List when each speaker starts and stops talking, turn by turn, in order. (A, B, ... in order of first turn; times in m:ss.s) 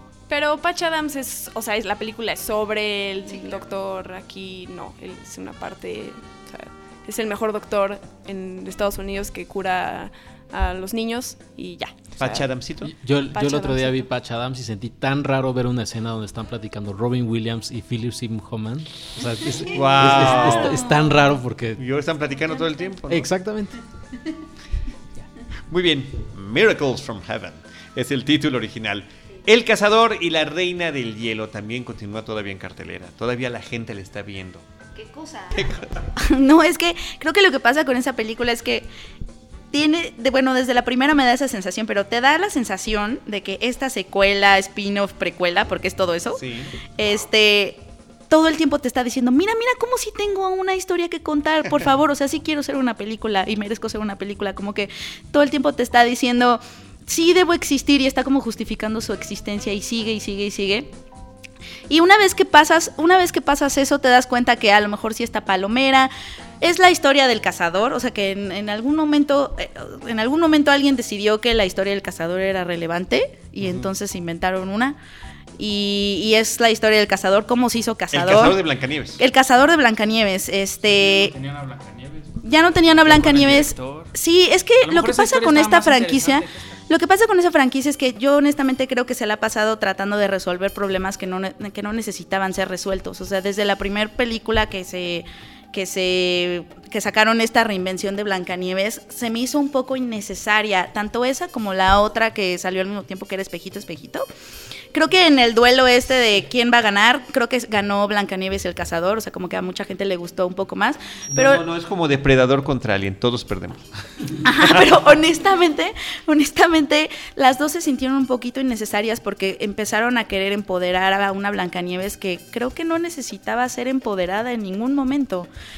0:00.3-0:12.5 A
0:03.3-0:03.5 B
0:12.2-0:12.9 C
0:12.8-0:21.8 D
0:13.3-0:14.1 A
0:19.7-0:20.8 C
0:20.5-0:20.8 B
0:21.8-0:23.3 C
0:23.1-0:23.8 D
0:25.7-0:34.6 C
0:34.9-0:35.6 B
0:35.5-0:36.0 C
0:36.2-0:38.9 B
0:39.7-0:46.4 B
0:46.4-0:46.7 C
0:47.0-1:00.9 B
1:01.9-1:15.0 B
1:13.6-1:13.9 C
1:15.6-1:18.6 B
1:18.1-1:19.2 C
1:19.2-1:21.3 B
1:20.8-1:24.1 E
1:22.4-1:44.3 B
1:24.8-1:26.8 E
1:44.9-1:51.6 B
1:51.3-1:54.9 C
1:54.4-2:05.5 B